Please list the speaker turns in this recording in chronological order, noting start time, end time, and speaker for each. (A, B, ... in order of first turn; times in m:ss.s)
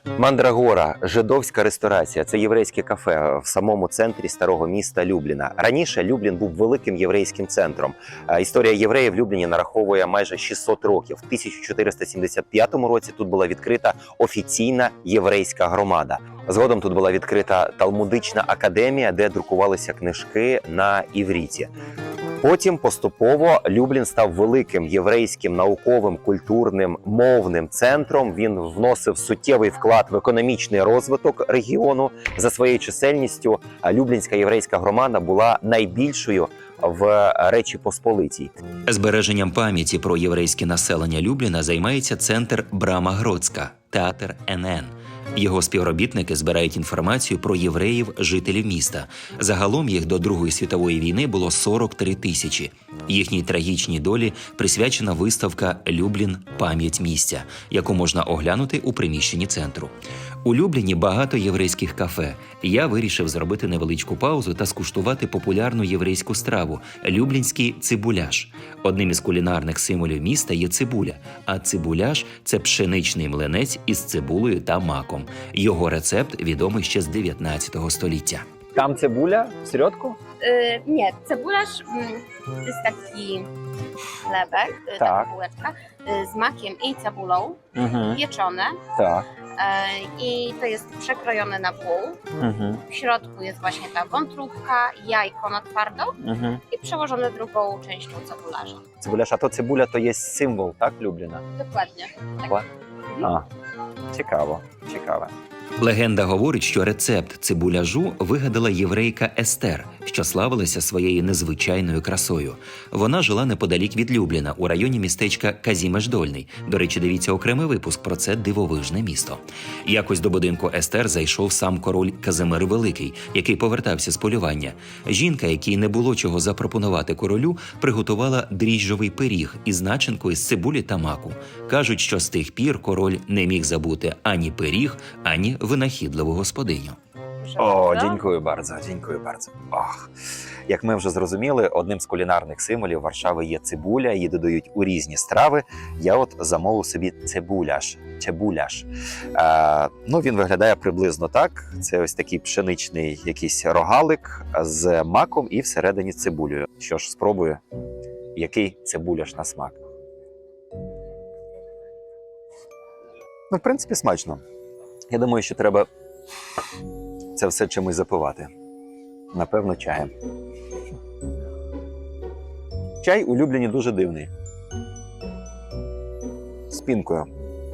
0:00.2-0:21.7 A
0:22.4-0:38.5 A
0:38.9-0:59.9 B
1:00.4-1:18.4 B
1:18.8-1:20.2 A
1:20.4-1:23.5 C
1:24.3-1:28.8 C
1:25.0-1:25.3 A
1:27.8-1:28.2 A
1:29.0-1:29.3 A
1:29.6-1:32.2 C
1:32.4-1:32.8 A
1:32.9-1:36.2 C
1:36.2-1:36.6 A
1:36.7-1:38.8 C
1:39.0-1:41.4 A
1:41.6-1:42.6 C
1:43.2-1:43.5 A
1:44.1-1:45.3 A
1:45.8-2:17.0 B
2:17.4-2:18.2 C
2:17.6-2:20.1 A
2:20.7-2:37.6 A
2:38.4-2:39.8 A
2:43.5-2:44.4 A
2:45.1-2:45.9 A
2:47.4-2:48.5 A
2:49.3-2:50.1 A
2:53.0-2:54.3 A
2:56.7-2:57.3 A